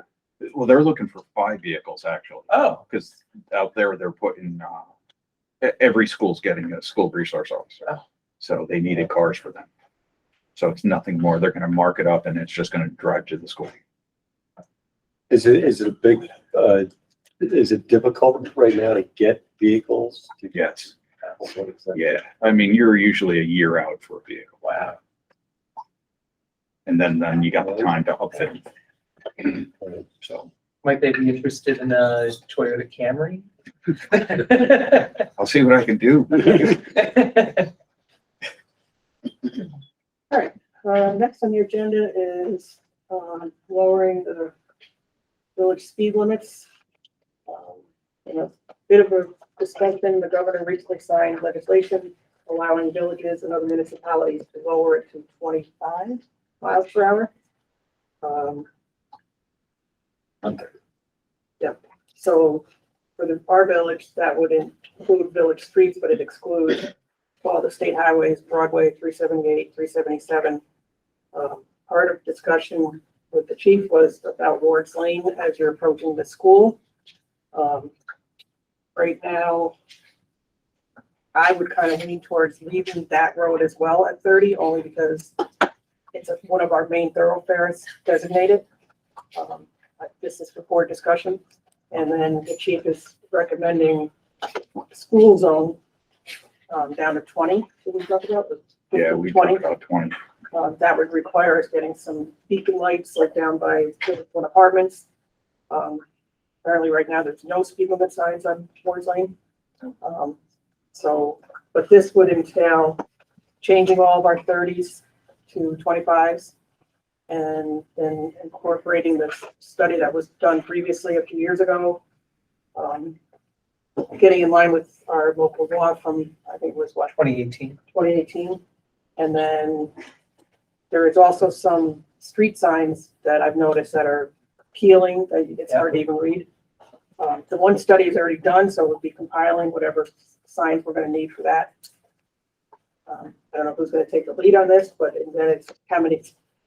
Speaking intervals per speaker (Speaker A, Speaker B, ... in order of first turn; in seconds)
Speaker A: 0.4-4.9, 5.6-7.8, 8.4-9.7, 10.6-13.8, 20.5-20.9, 21.9-24.9, 26.9-28.6, 35.4-36.9, 98.9-100.2
Speaker B: 2.5-2.8, 30.8-33.5, 34.1-35.1, 37.2-37.6, 127.2-127.8, 135.7-136.0
Speaker C: 15.3-20.6, 21.4-22.0, 27.6-27.9, 29.6-30.5
Speaker D: 40.3-44.5, 45.6-46.7, 47.5-57.3, 58.2-58.7, 61.6-62.6, 63.2-70.6, 71.3-76.8, 77.5-77.9, 79.0-79.8, 81.3-85.5, 86.1-88.7, 89.3-91.4, 91.9-94.1, 94.8-95.8, 96.7-99.7, 100.5-105.1, 105.7-106.0, 106.6-109.3, 110.0-110.4, 110.9-113.0, 113.6-116.5, 117.3-122.0, 122.8-123.2, 124.0-127.1, 127.9-128.6, 129.2-129.9, 130.9-136.5, 137.2-141.7, 143.1-146.3